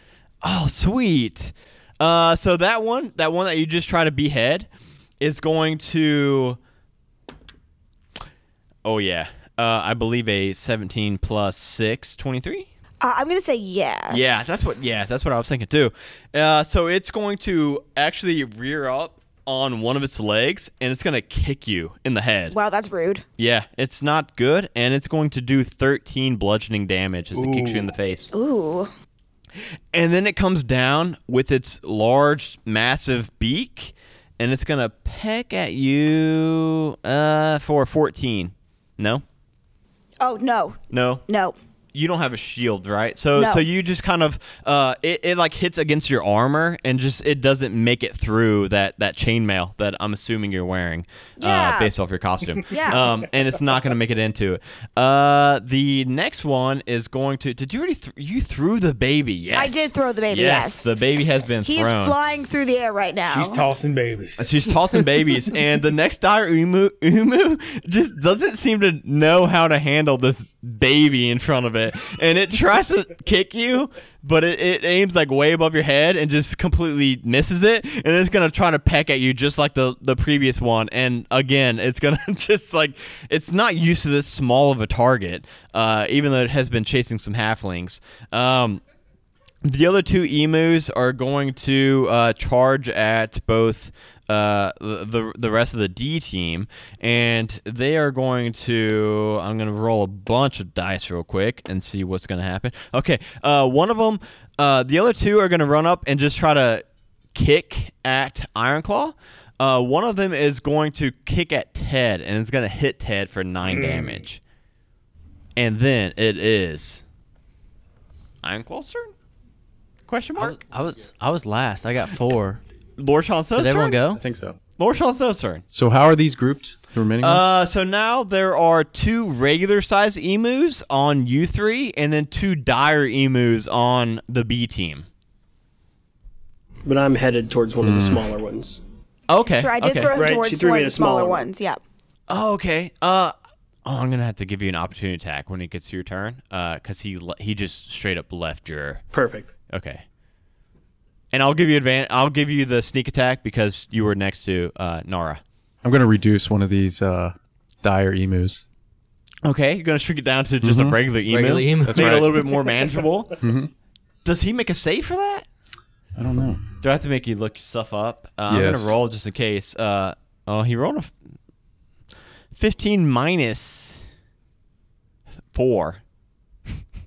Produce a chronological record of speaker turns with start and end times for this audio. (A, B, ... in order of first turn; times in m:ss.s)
0:00.4-0:04.7 A
0:05.2-0:06.6 A
0:08.8-0:12.7 A
0:13.0-0:14.7 B
0:14.1-0:22.6 A
0:22.5-0:23.2 B
0:23.4-0:28.3 A
0:27.3-0:27.9 C
0:28.3-0:28.9 B
0:29.9-0:39.2 A
0:40.2-0:41.6 B
0:40.9-0:41.2 A
0:41.9-1:02.2 A
0:43.4-0:43.7 B
0:51.4-0:51.9 B
0:52.7-0:53.1 B
0:59.5-1:00.9 B
1:01.6-1:03.6 B
1:03.3-1:04.5 C
1:04.4-1:28.8 A
1:29.6-1:54.4 A
1:53.7-1:54.2 C
1:55.6-1:57.0 A
1:58.4-1:59.1 A
2:00.1-2:00.6 A
2:00.4-2:02.6 D
2:03.0-2:04.0 A
2:03.6-2:04.2 D
2:04.1-2:04.6 E
2:04.8-2:05.6 A
2:05.7-2:07.5 E
2:07.2-2:15.1 A
2:16.8-2:18.8 F
2:17.8-2:18.2 E
2:19.3-2:20.3 A
2:19.6-2:21.8 B
2:20.1-2:21.5 F
2:22.3-2:23.3 A
2:23.8-2:29.0 A
2:29.1-2:29.5 F
2:29.7-2:30.0 A
2:31.3-2:35.4 A
2:35.8-2:38.6 E
2:39.4-2:43.4 A
2:40.6-2:41.0 E
2:41.3-2:42.3 D
2:41.8-2:42.6 E
2:43.4-2:43.7 E
2:44.2-2:45.5 A
2:46.2-2:46.6 E
2:46.8-2:51.1 A
2:48.5-2:48.9 E
2:52.5-2:54.0 A
2:55.5-2:56.0 A